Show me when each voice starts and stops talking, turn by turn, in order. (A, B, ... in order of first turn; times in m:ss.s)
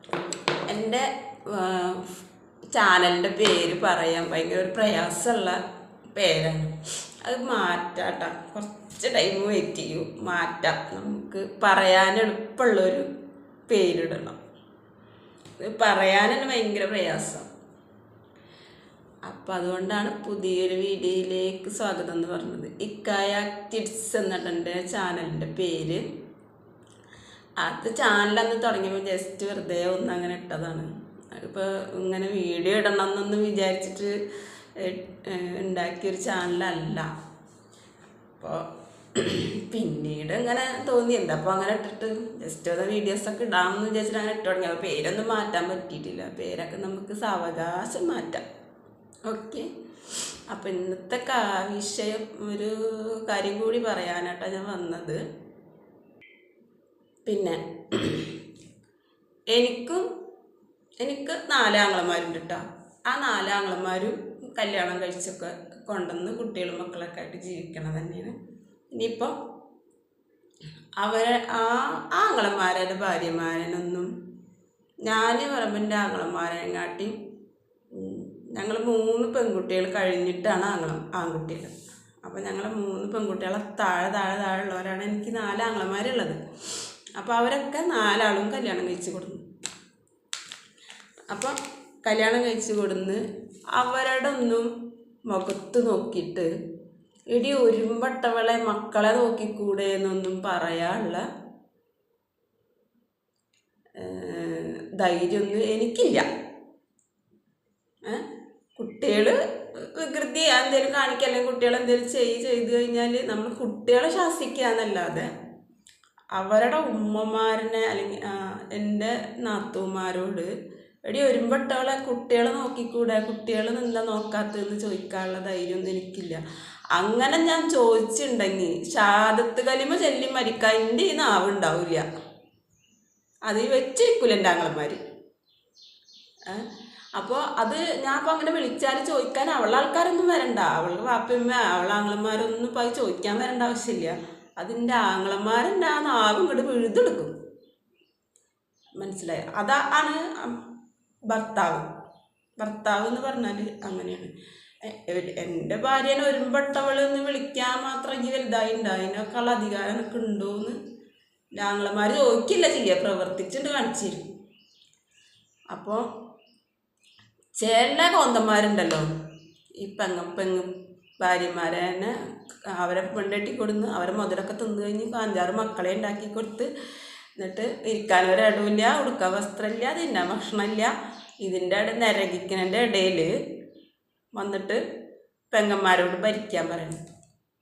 0:00.7-0:02.1 A
0:02.7-0:05.6 A
0:06.1-0:13.1 A
0:13.7-0:14.4 A
0:15.6-0:17.5 A
0:19.3-0:26.1 A
0:27.6-0:34.1 A
0:34.8-0:37.1 A
0:38.4-0:48.4 A
0:49.3-0:55.2 A
0:57.2-0:58.3 A
0:59.5-1:00.1 A
1:01.0-1:08.4 A
1:08.9-1:09.4 A
1:11.0-1:14.1 A
1:15.0-1:17.2 A
1:17.9-1:21.7 A
1:22.2-1:26.4 A
1:27.2-1:29.4 A
1:31.3-1:33.2 A
1:33.7-1:34.7 A
1:35.3-1:36.5 A
1:37.3-1:41.2 A
1:44.0-1:46.3 A
1:48.8-1:55.3 A
1:56.3-2:00.5 A
2:01.1-2:06.4 A
2:06.9-2:12.0 A
2:13.5-2:15.0 A
2:16.5-2:27.3 A
2:29.0-2:30.6 A
2:31.3-2:31.9 A
2:32.6-2:34.3 A
2:34.8-2:40.8 A
2:41.6-2:44.3 A
2:45.7-2:46.0 A
2:47.6-2:49.1 A
2:49.8-2:52.2 A
2:52.7-2:56.7 A
2:57.4-3:03.3 A
3:04.4-3:04.8 A
3:05.5-3:07.0 A